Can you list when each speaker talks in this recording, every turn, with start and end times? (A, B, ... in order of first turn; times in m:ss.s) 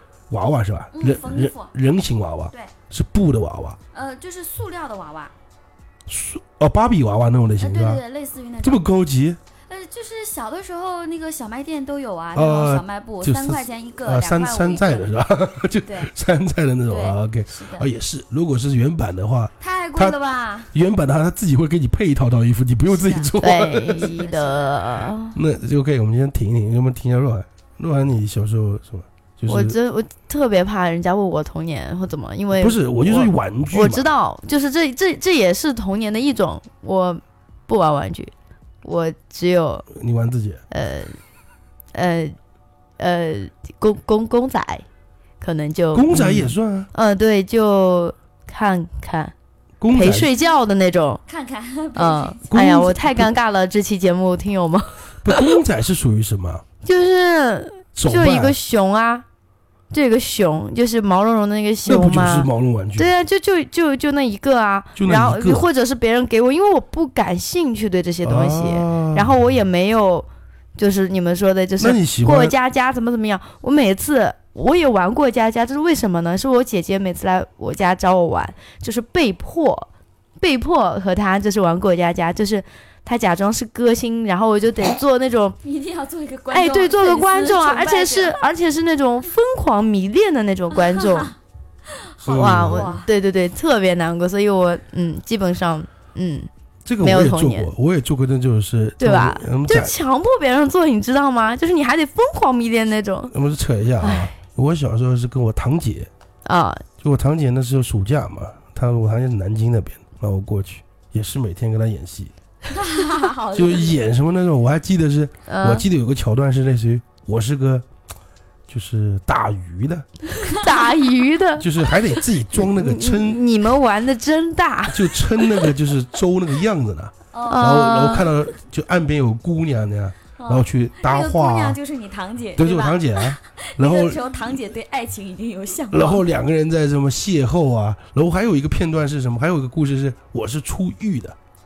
0:00.3-0:03.8 A
0:00.9-0:01.7 B
0:03.9-0:05.3 B
0:06.1-0:08.0 A
0:07.6-0:08.8 B
0:08.6-0:09.4 A
0:09.7-0:15.1 B
0:12.3-0:20.2 A
0:15.9-0:16.1 B
0:16.9-0:17.9 B
0:19.6-0:20.7 B
0:20.7-0:24.1 A
0:22.9-0:24.8 B
0:23.4-0:25.4 C
0:25.3-0:29.8 A
0:29.5-0:39.9 C
0:32.6-0:34.1 A
0:39.9-0:40.6 A
0:40.7-0:41.2 C
0:41.9-0:42.4 C
0:43.0-0:44.9 C
0:45.4-0:49.3 C
0:45.9-0:46.9 A
0:49.8-0:50.3 A
0:49.9-0:51.2 C
0:51.3-0:52.5 B
0:52.0-0:55.6 C
0:52.5-0:53.3 A
0:55.2-0:56.6 A
0:56.8-0:59.2 C
0:58.0-0:58.6 A
0:59.9-1:19.9 C
1:01.9-1:03.1 A
1:05.0-1:05.7 A
1:08.2-1:09.3 A
1:11.8-1:12.6 A
1:20.4-1:25.6 C
1:25.6-1:28.5 B
1:26.5-1:31.3 C
1:30.7-1:31.3 B
1:31.9-1:33.1 B
1:32.3-1:33.0 A
1:32.3-1:36.5 C
1:36.8-1:39.9 A
1:37.0-1:37.7 C
1:39.0-1:43.3 C
1:43.3-1:46.1 A
1:44.0-1:44.3 C
1:46.4-1:46.8 C
1:47.0-1:52.3 A
1:52.7-1:54.0 B
1:53.5-1:57.8 A
1:55.5-1:55.8 C
1:58.7-2:00.1 A
2:00.5-2:05.7 C
2:01.6-2:03.4 A
2:04.9-2:11.8 A
2:07.3-2:07.8 B
2:07.5-2:08.3 C
2:10.4-2:16.2 B
2:12.6-2:14.3 A
2:15.9-2:21.4 A